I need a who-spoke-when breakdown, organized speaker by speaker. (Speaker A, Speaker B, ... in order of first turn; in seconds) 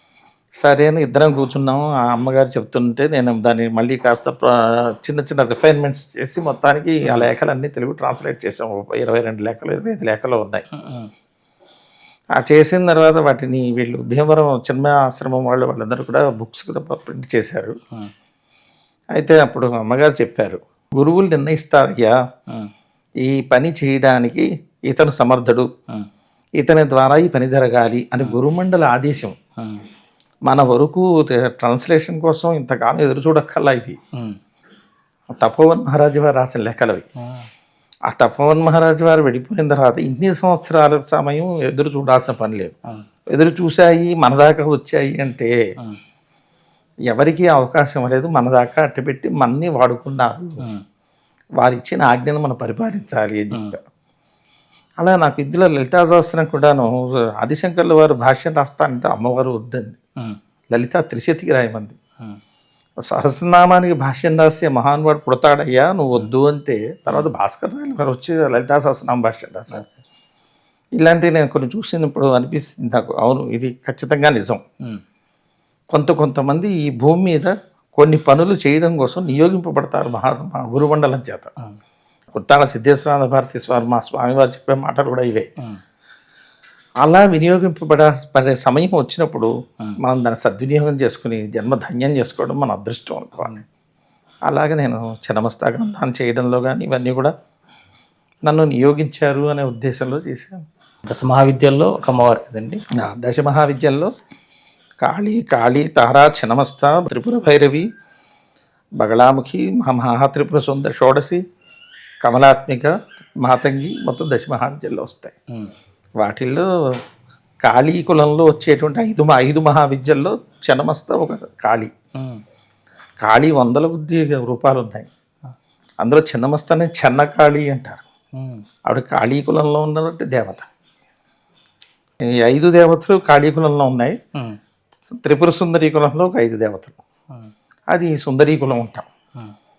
Speaker A: 0.6-10.6, 12.4-17.8, 19.1-22.1, 23.2-25.7, 26.6-29.4, 30.4-34.0, 35.4-37.0, 38.1-42.7, 43.3-45.5, 47.1-50.6, 51.6-53.8, 55.0-60.0, 60.7-62.0, 63.0-69.8, 71.0-74.6, 75.9-81.5, 82.3-85.5, 87.0-93.6, 94.5-97.3, 98.5-100.6, 102.9-104.1, 105.0-107.8, 109.0-111.4, 112.2-115.3, 116.2-117.0, 117.6-121.9, 123.2-125.1, 126.0-128.0, 128.8-130.7, 132.2-134.2, 135.1-137.0, 137.9-139.1
Speaker B: 10.7-11.1, 29.6-29.9, 37.2-37.5, 101.1-102.8, 122.2-122.4, 128.3-128.6